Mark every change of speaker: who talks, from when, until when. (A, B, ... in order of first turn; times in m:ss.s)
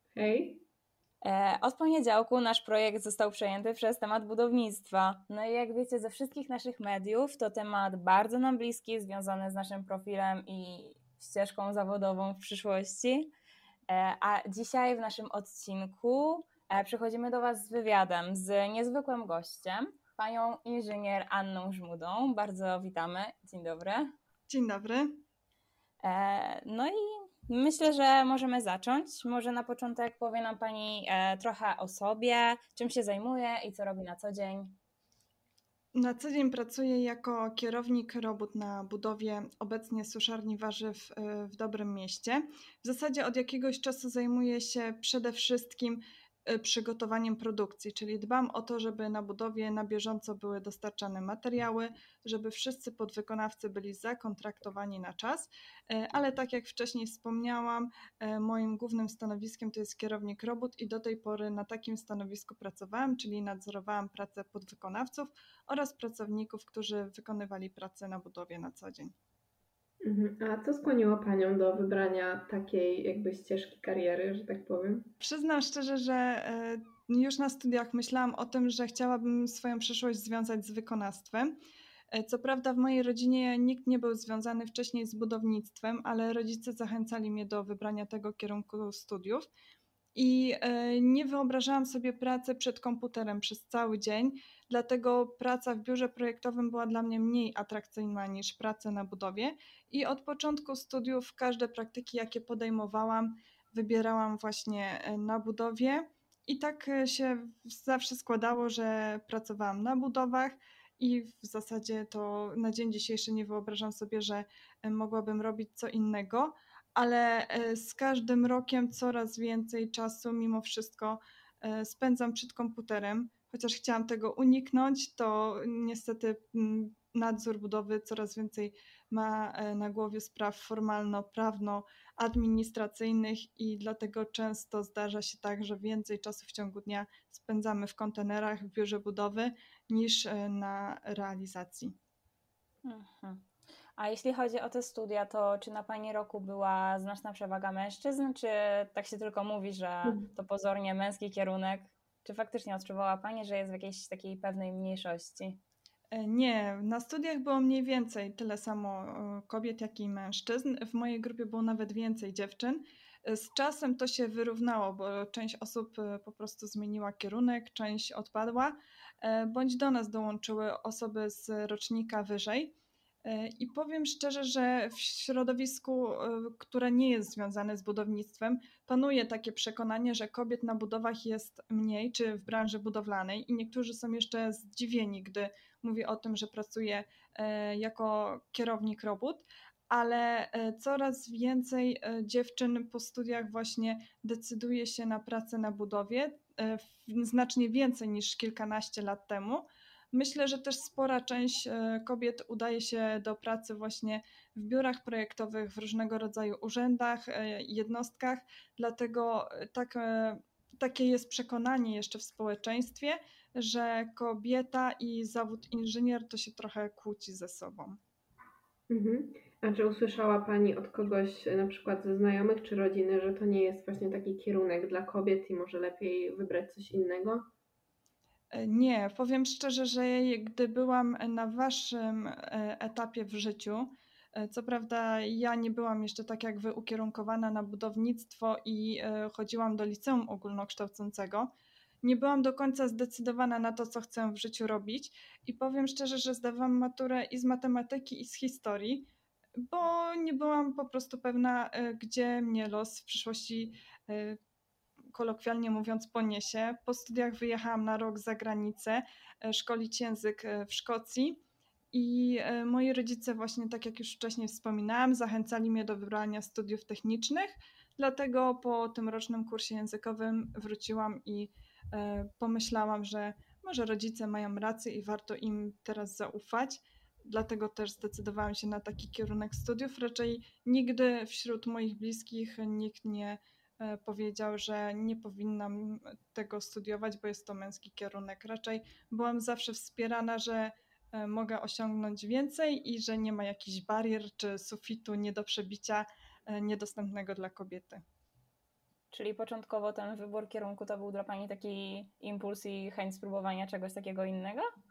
0:00.2-0:00.6 A
0:01.2-0:13.3 B
0:13.9-0:24.1 B
0:24.5-0:25.1 C
0:26.0-0:34.8 B
0:36.0-1:09.1 C
1:10.0-1:15.1 A
1:15.2-1:21.5 C
1:22.1-1:29.5 C
1:30.2-2:21.9 C
2:22.8-2:23.4 B
2:24.0-2:35.6 B
2:36.2-3:38.0 C
3:38.9-3:47.4 A
3:48.5-4:01.5 C
4:02.0-4:14.4 C
4:15.1-4:21.4 C
4:21.9-4:58.0 C
4:59.1-5:04.6 B